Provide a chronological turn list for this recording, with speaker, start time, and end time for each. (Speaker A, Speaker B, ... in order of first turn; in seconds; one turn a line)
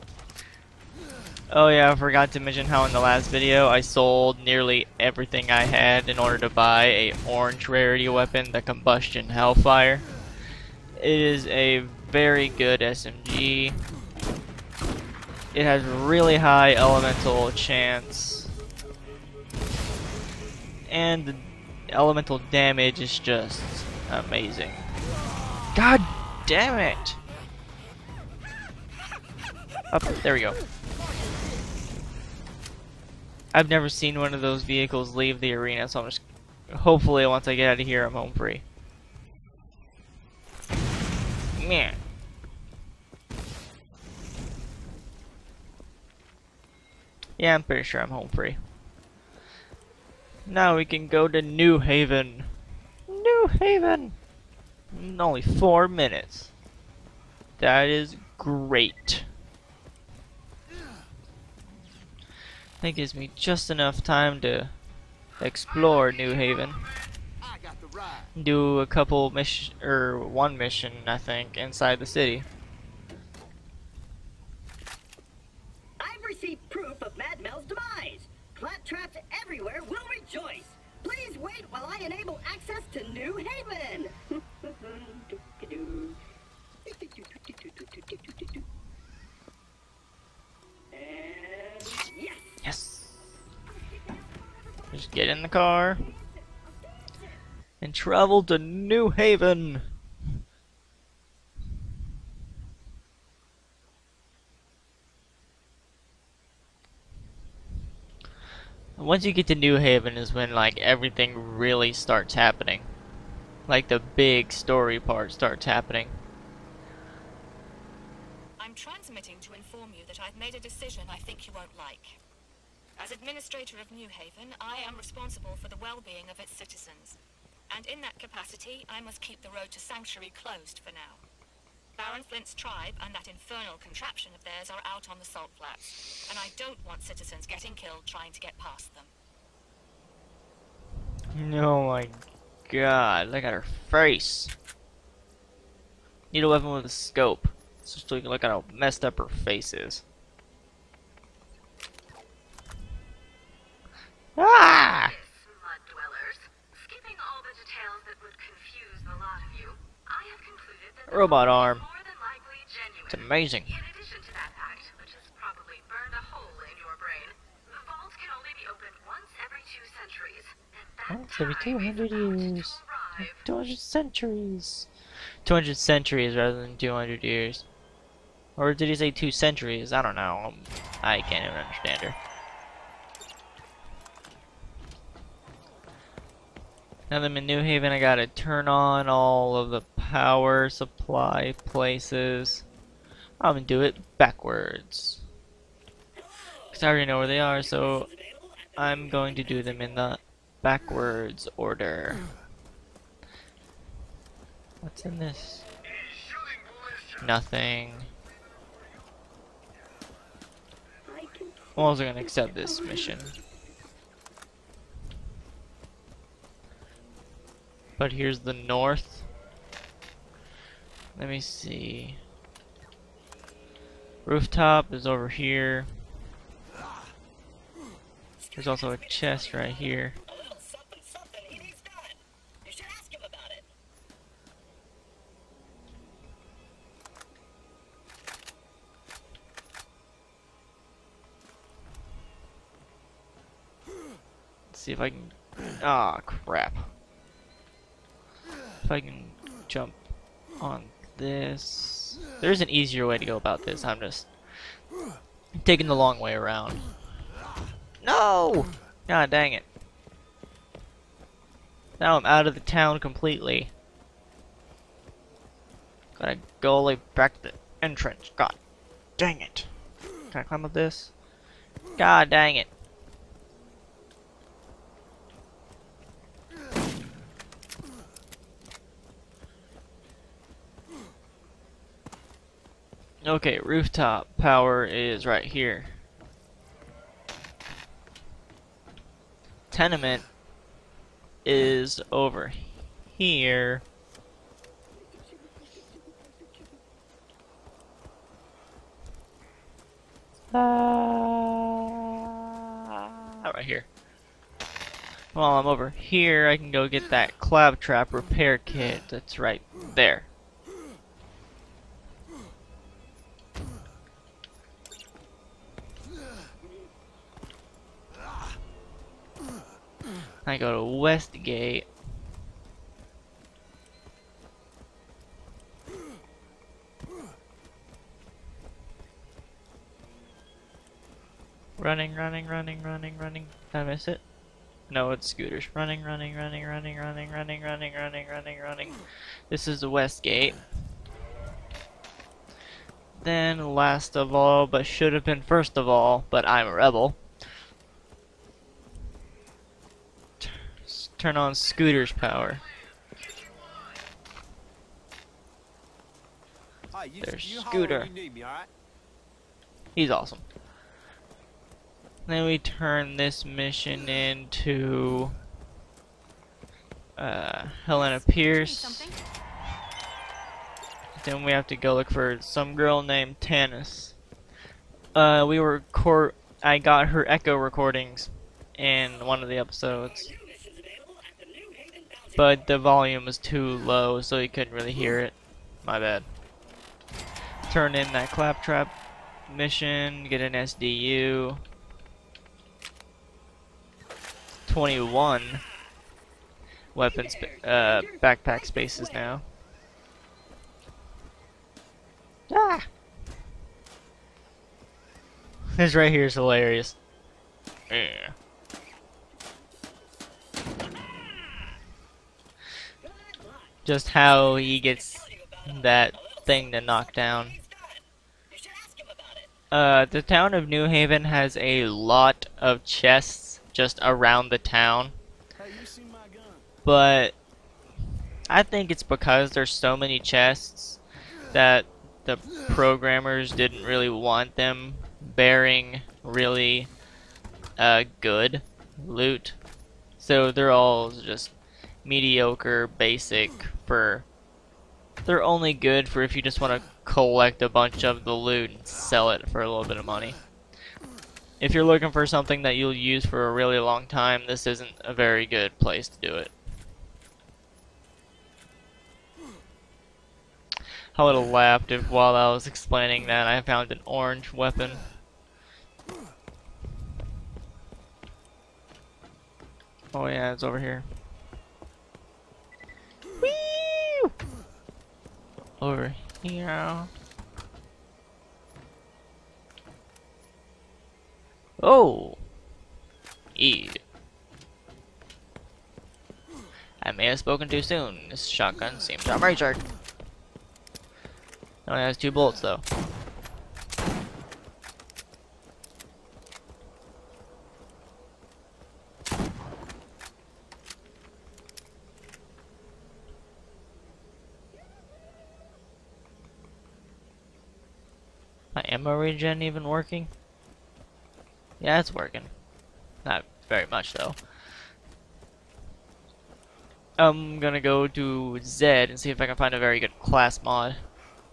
Speaker A: 1.5-10.1
Speaker A: 11.0-13.8
Speaker A: 15.5-18.5
Speaker A: 20.9-24.9
Speaker A: 25.8-27.2
Speaker A: 29.9-30.6
Speaker A: 33.5-38.6
Speaker A: 41.6-42.0
Speaker A: 47.4-48.6
Speaker A: 50.5-52.5
Speaker A: 53.1-54.2
Speaker A: 54.9-56.5
Speaker A: 57.6-59.3
Speaker A: 62.8-64.7
Speaker A: 65.4-66.9
Speaker B: 67.4-68.3
Speaker A: 68.4-72.5
Speaker C: 76.0-84.2
Speaker C: 84.9-86.1
Speaker C: 86.9-88.2
Speaker C: 91.2-92.6
Speaker A: 92.6-93.2
Speaker A: 94.9-96.0
Speaker A: 97.8-99.9
Speaker A: 109.0-112.9
Speaker A: 113.7-116.2
Speaker D: 118.6-122.2
Speaker D: 123.0-127.2
Speaker D: 127.7-131.2
Speaker D: 132.0-139.1
Speaker A: 141.3-144.5
Speaker A: 146.3-150.0
Speaker A: 154.4-155.2
Speaker E: 155.2-161.1
Speaker A: 161.1-161.9
Speaker E: 161.8-163.0
Speaker A: 163.1-163.8
Speaker E: 163.8-171.1
Speaker A: 171.1-174.9
Speaker A: 175.4-177.7
Speaker A: 178.6-182.2
Speaker A: 187.1-192.7
Speaker A: 193.4-195.2
Speaker C: 196.3-196.7
Speaker A: 196.7-198.1
Speaker A: 198.8-202.2
Speaker A: 204.8-205.7
Speaker A: 207.2-208.1
Speaker C: 211.1-211.7
Speaker A: 211.8-213.4
Speaker A: 218.0-219.3
Speaker A: 221.2-222.2
Speaker A: 224.2-225.9
Speaker A: 228.6-230.2
Speaker C: 230.4-232.1
Speaker C: 232.7-233.6
Speaker A: 244.7-246.9
Speaker A: 248.8-250.0
Speaker A: 250.6-254.3
Speaker A: 255.6-256.9
Speaker A: 258.0-259.7
Speaker A: 262.0-263.7
Speaker A: 266.2-268.6
Speaker A: 269.2-269.7
Speaker A: 270.3-271.1
Speaker A: 272.0-272.7
Speaker A: 283.2-286.0
Speaker A: 289.7-290.3
Speaker A: 291.4-293.8
Speaker A: 300.5-303.9
Speaker A: 305.3-310.3
Speaker A: 320.4-321.9
Speaker A: 331.8-334.2
Speaker A: 334.9-340.6
Speaker A: 343.1-347.2
Speaker A: 350.4-352.6
Speaker B: 356.9-358.7
Speaker A: 357.2-358.1
Speaker A: 359.9-360.4
Speaker A: 362.3-365.4
Speaker A: 367.2-369.1
Speaker A: 371.2-374.2
Speaker A: 375.1-380.4
Speaker C: 380.4-382.4
Speaker A: 382.4-386.3
Speaker A: 387.7-388.9
Speaker A: 389.5-391.6
Speaker A: 394.7-395.6
Speaker A: 396.9-399.4
Speaker A: 402.5-402.9
Speaker A: 405.7-407.0
Speaker A: 407.9-408.4
Speaker C: 413.0-413.7
Speaker A: 413.9-417.6
Speaker C: 418.5-419.5
Speaker A: 419.7-425.2
Speaker B: 425.6-426.6
Speaker A: 426.8-427.4
Speaker A: 428.5-436.9
Speaker A: 437.8-439.6
Speaker A: 440.2-444.2
Speaker A: 445.2-450.4
Speaker A: 451.6-456.5
Speaker A: 461.1-465.0
Speaker A: 470.1-471.1
Speaker A: 473.4-474.3
Speaker A: 475.8-477.1
Speaker A: 481.8-482.4
Speaker A: 483.6-484.0
Speaker A: 487.0-489.9
Speaker A: 491.9-492.8
Speaker A: 508.8-510.3
Speaker A: 511.8-512.5
Speaker A: 513.2-514.4
Speaker A: 517.2-521.0